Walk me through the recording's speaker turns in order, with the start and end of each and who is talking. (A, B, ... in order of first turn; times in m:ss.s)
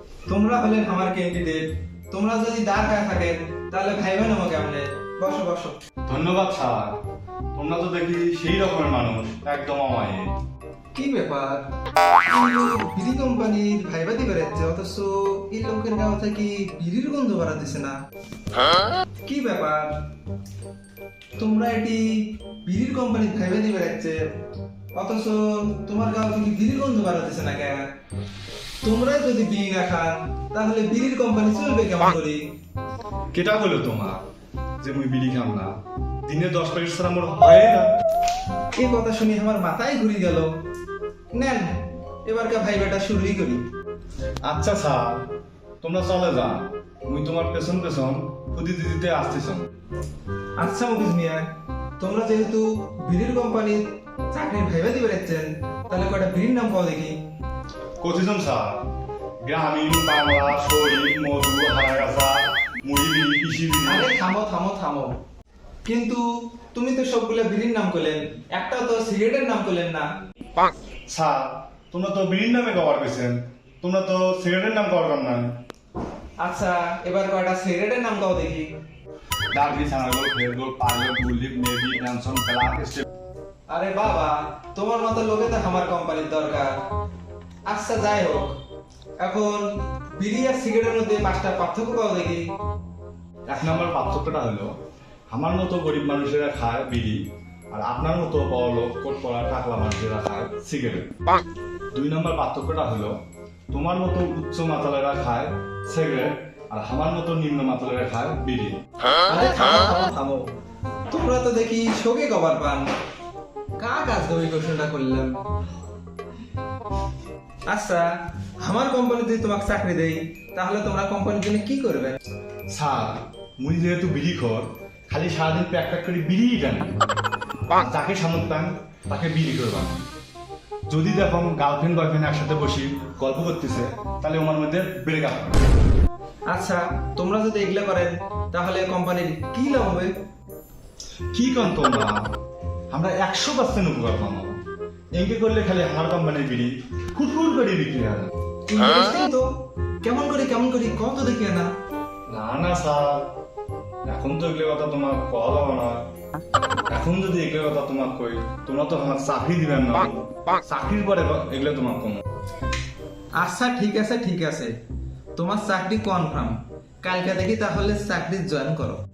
0:00.3-0:05.8 A
0:06.1-0:07.0 B
0:07.5-0:10.3 B
0:10.9-0:11.7 A
0:12.2-0:18.0 A
0:19.2-0:20.0 A
0:21.4-0:24.2 A
0:24.9-0:27.8 A
0:28.8-0:32.4 A
0:33.3-0:34.2 B
0:34.8-0:37.9 B
0:38.7-0:40.5 A
0:41.3-0:43.6 A
0:44.4-0:45.3 B
0:45.8-0:49.7 B
0:50.6-0:51.5 A
0:52.0-0:57.2 A
0:58.0-0:58.9 B
0:59.4-1:04.1 B
1:03.9-1:05.1 A
1:05.8-1:10.1 A
1:11.1-1:15.6 B
1:16.4-1:18.7 A
1:19.5-1:23.0 B
1:23.7-1:26.7 A
1:27.7-1:28.5 A
1:29.2-1:32.4 A
1:33.5-1:34.7 B
1:35.3-1:41.1 B
1:41.9-1:48.8 B
1:49.3-1:50.5 A
1:51.1-1:52.9 A
1:53.8-1:55.4 A
1:57.7-2:02.2 A
2:02.7-2:07.0 B
2:07.7-2:10.1 B
2:10.9-2:15.6 B
2:16.5-2:20.1 A
2:21.3-2:22.3 B
2:22.9-2:24.6 B
2:25.2-2:28.3 B
2:28.7-2:29.5 A
2:30.0-2:31.7 A
2:32.3-2:33.4 B
2:34.0-2:36.1 B
2:36.9-2:42.2 B
2:43.4-2:44.7 A
2:45.4-2:49.0 A